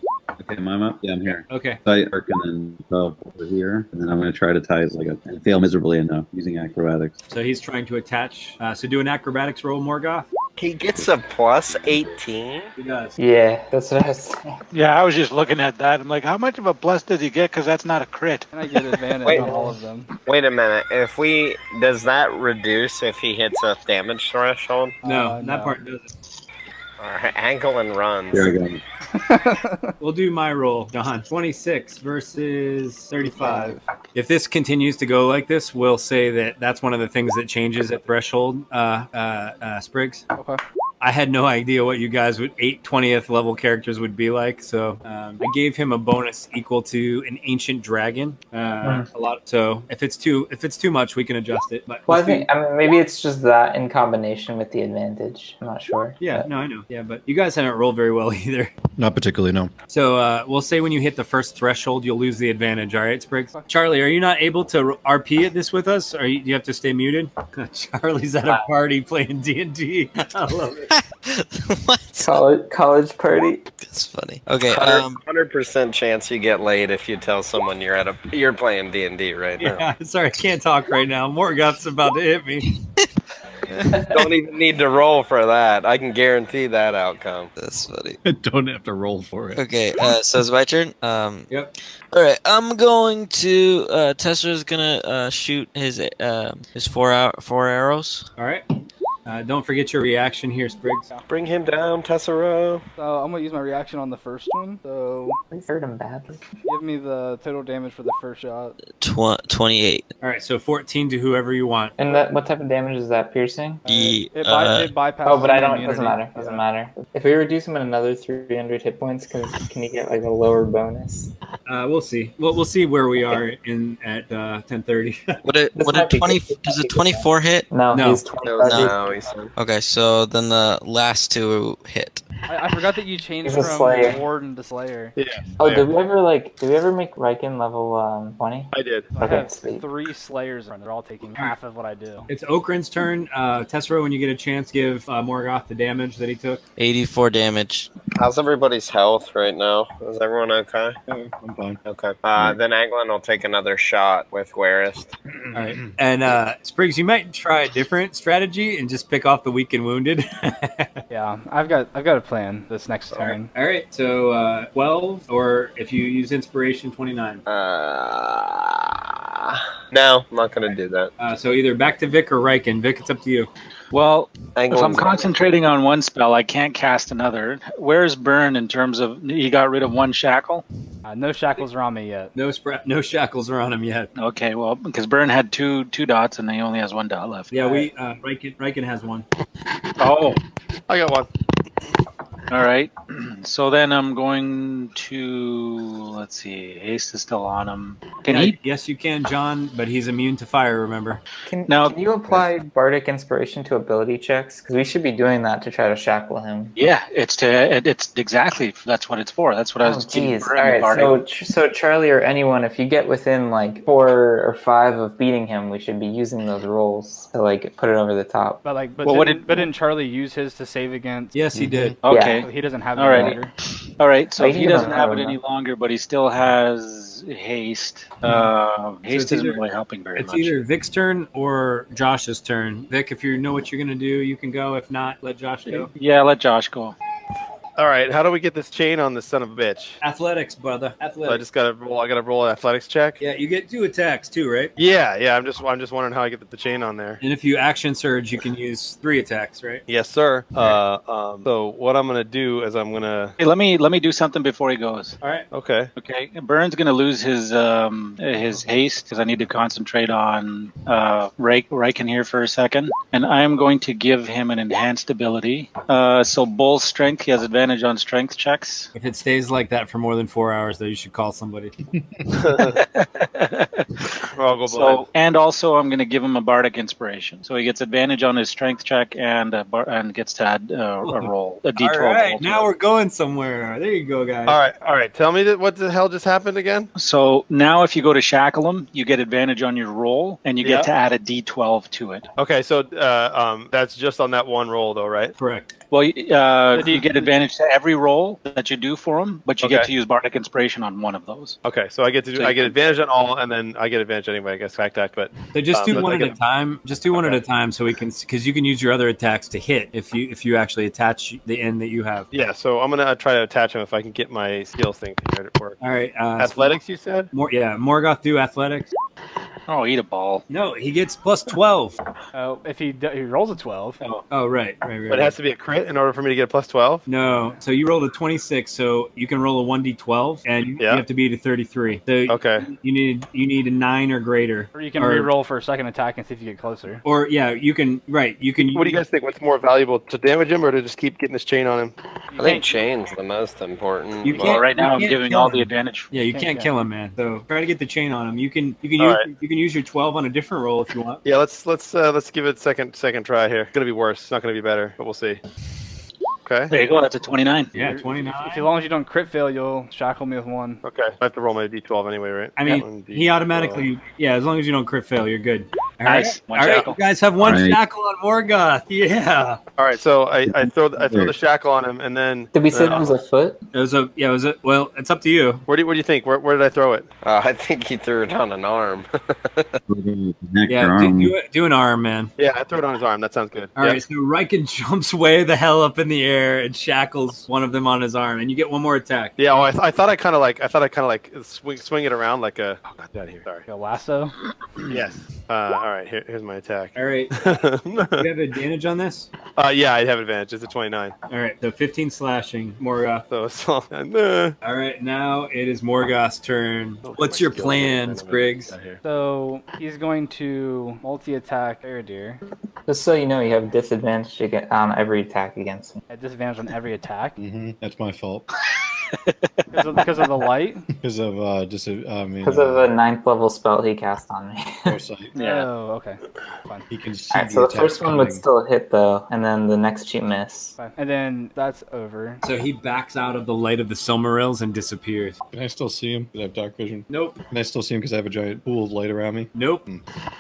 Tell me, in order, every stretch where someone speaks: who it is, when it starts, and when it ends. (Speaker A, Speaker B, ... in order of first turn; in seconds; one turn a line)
Speaker A: 0.4-7.2
Speaker B: 1.5-1.8
Speaker B: 7.3-10.3
Speaker C: 10.6-12.7
Speaker A: 11.7-12.2
Speaker B: 12.8-13.2
Speaker D: 13.2-14.5
Speaker E: 14.7-18.5
Speaker F: 18.5-20.1
Speaker C: 19.2-19.7
Speaker C: 20.2-25.0
Speaker F: 25.0-25.8
Speaker B: 25.0-26.1
Speaker C: 27.0-28.5
Speaker A: 28.3-28.8
Speaker F: 29.1-29.9
Speaker B: 30.0-40.2
Speaker F: 33.2-33.8
Speaker F: 40.3-40.6
Speaker B: 41.0-52.5
Speaker D: 52.1-56.5
Speaker B: 56.2-58.7
Speaker G: 59.0-59.7
Speaker B: 59.9-70.9
Speaker H: 70.9-72.3
Speaker D: 72.2-73.6
Speaker H: 73.8-75.2
Speaker C: 74.7-79.8
Speaker B: 79.6-82.7
Speaker H: 83.8-84.0
Speaker C: 83.9-87.5
Speaker H: 87.5-88.2
Speaker G: 88.2-89.7
Speaker H: 89.5-91.5
Speaker H: 92.1-98.3
Speaker B: 98.4-98.7
Speaker B: 99.2-101.1
Speaker C: 101.3-102.8
Speaker F: 103.0-105.4
Speaker D: 105.5-106.4
Speaker F: 106.7-108.8
Speaker H: 109.0-110.1
Speaker B: 110.2-112.0
Speaker D: 112.0-113.8
Speaker H: 113.8-114.9
Speaker F: 113.8-116.6
Speaker D: 115.2-121.3
Speaker B: 121.7-125.3
Speaker H: 125.4-127.7
Speaker D: 125.7-128.9
Speaker B: 127.9-128.2
Speaker C: 128.4-129.5
Speaker H: 128.6-128.9
Speaker H: 129.5-132.2
Speaker F: 132.5-135.1
Speaker D: 133.4-134.2
Speaker I: 135.1-135.9
Speaker D: 135.6-139.8
Speaker I: 138.7-139.1
Speaker F: 139.2-142.3
Speaker B: 142.3-146.6
Speaker H: 146.8-147.9
Speaker C: 148.1-150.9
Speaker G: 151.1-151.8
Speaker C: 151.8-155.1
Speaker G: 155.5-155.9
Speaker B: 155.5-160.9
Speaker F: 161.1-163.5
Speaker B: 163.1-167.4
Speaker C: 167.5-171.1
Speaker B: 171.2-173.5
Speaker E: 173.9-180.6
Speaker C: 174.5-175.3
Speaker F: 181.0-182.3
Speaker B: 182.3-184.1
Speaker E: 184.2-187.9
Speaker B: 187.5-189.2
Speaker E: 190.0-190.4
Speaker I: 190.9-191.3
Speaker E: 192.5-198.6
Speaker B: 198.3-201.2
Speaker D: 201.5-206.7
Speaker E: 201.7-202.4
Speaker E: 206.8-211.2
Speaker D: 209.8-218.6
Speaker F: 218.6-221.3
Speaker E: 219.0-219.5
Speaker B: 221.3-221.9
Speaker G: 221.6-221.9
Speaker E: 222.0-223.4
Speaker D: 222.0-222.4
Speaker F: 222.4-223.5
Speaker E: 224.0-230.6
Speaker D: 224.4-225.4
Speaker B: 229.1-229.6
Speaker B: 230.1-235.9
Speaker E: 235.7-236.9
Speaker I: 237.8-240.0
Speaker B: 240.0-241.4
Speaker I: 241.2-243.2
Speaker B: 243.2-244.7
Speaker I: 244.8-247.2
Speaker B: 247.2-249.8
Speaker I: 249.9-253.3
Speaker E: 253.4-255.2
Speaker B: 255.2-255.5
Speaker I: 255.5-255.9
Speaker E: 256.0-268.9
Speaker B: 268.9-271.7
Speaker I: 272.3-272.8
Speaker E: 272.6-273.9
Speaker I: 274.3-275.1
Speaker E: 274.6-282.7
Speaker B: 281.0-284.6
Speaker I: 284.4-286.9
Speaker E: 286.9-292.3
Speaker I: 290.6-290.9
Speaker I: 292.4-295.3
Speaker B: 295.4-295.7
Speaker E: 295.9-301.6
Speaker F: 296.7-297.3
Speaker I: 299.6-299.9
Speaker I: 301.6-306.4
Speaker E: 302.3-302.9
Speaker B: 305.5-312.3
Speaker I: 307.1-307.4
Speaker I: 312.3-315.8
Speaker B: 315.8-316.8
Speaker I: 316.4-317.3
Speaker B: 317.3-318.9
Speaker E: 319.7-320.4
Speaker B: 320.5-322.0
Speaker F: 322.3-324.0
Speaker B: 324.3-325.3
Speaker I: 325.1-327.1
Speaker B: 327.1-335.3
Speaker I: 330.8-331.0
Speaker I: 332.3-332.7
Speaker F: 334.7-337.0
Speaker B: 337.0-339.0
Speaker I: 338.6-341.9
Speaker F: 342.3-342.7
Speaker C: 342.4-344.6
Speaker B: 344.2-351.2
Speaker E: 344.3-346.1
Speaker F: 346.3-346.7
Speaker I: 349.0-349.2
Speaker I: 351.2-355.4
Speaker I: 356.4-356.7
Speaker E: 356.7-357.7
Speaker B: 357.7-358.7
Speaker F: 357.8-360.8
Speaker I: 360.8-363.9
Speaker B: 362.6-369.6
Speaker E: 366.0-367.0
Speaker A: 367.4-367.8
Speaker I: 369.8-373.1
Speaker A: 370.5-371.3
Speaker D: 372.5-373.6
Speaker B: 373.7-375.6
Speaker I: 375.7-377.1
Speaker C: 377.2-379.8
Speaker A: 379.9-381.3
Speaker B: 380.7-382.3
Speaker I: 382.4-384.0
Speaker B: 383.8-389.3
Speaker I: 389.4-393.6
Speaker F: 393.7-394.3
Speaker I: 394.8-398.3
Speaker B: 396.9-397.3
Speaker B: 398.2-399.3
Speaker I: 399.5-401.1
Speaker B: 401.3-403.2
Speaker I: 403.3-404.5
Speaker B: 404.6-408.7
Speaker I: 407.1-409.0
Speaker F: 409.0-412.4
Speaker D: 412.9-416.0
Speaker F: 416.1-417.4
Speaker G: 417.4-418.4
Speaker F: 419.7-420.9
Speaker G: 421.0-422.9
Speaker D: 422.4-425.0
Speaker G: 424.9-425.3
Speaker E: 425.3-425.7
Speaker F: 425.3-426.9
Speaker G: 426.9-428.4
Speaker D: 427.3-430.8
Speaker F: 430.8-432.4
Speaker B: 432.4-435.4
Speaker G: 435.5-440.0
Speaker B: 437.1-437.4
Speaker B: 439.5-439.9